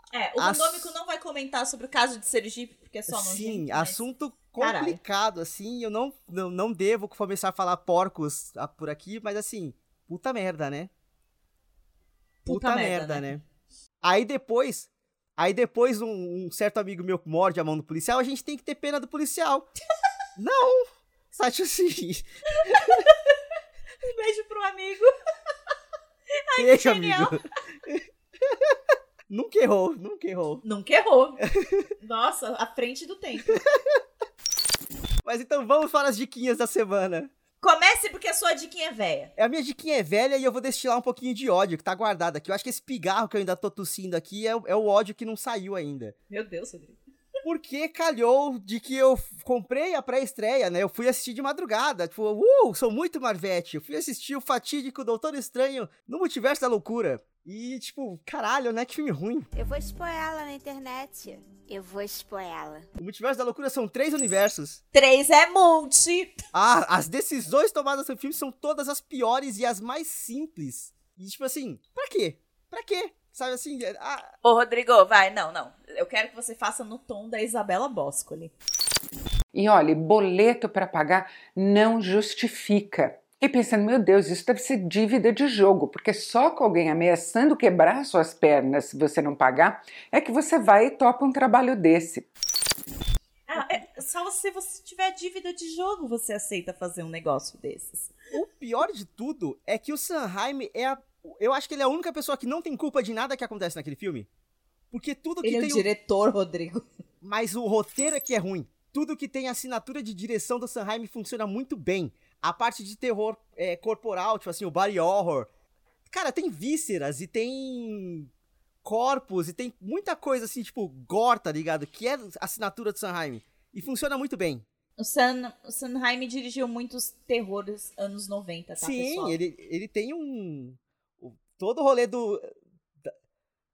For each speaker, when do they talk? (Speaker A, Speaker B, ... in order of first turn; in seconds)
Speaker A: 0.1-4.1, 4.6-5.0, 12.4-13.3, 22.6-23.3, 24.0-25.1, 26.3-27.4, 30.6-31.4, 32.0-33.6, 37.6-39.3, 46.3-47.0, 64.9-66.4, 74.4-78.5, 93.5-98.2, 105.4-106.9, 125.0-129.4
Speaker B: 0.4-0.9, 3.1-10.9, 12.5-13.4, 14.0-19.7, 20.4-23.0, 26.6-28.8, 29.3-30.6, 31.4-31.9, 33.5-34.0, 35.2-37.3, 39.4-46.1, 47.4-59.5, 63.0-64.8, 66.5-74.3, 98.3-104.3, 104.9-105.9, 107.2-115.5, 116.1-118.3, 118.8-124.7, 128.8-133.1
Speaker C: 59.5-62.9
Speaker D: 79.5-92.3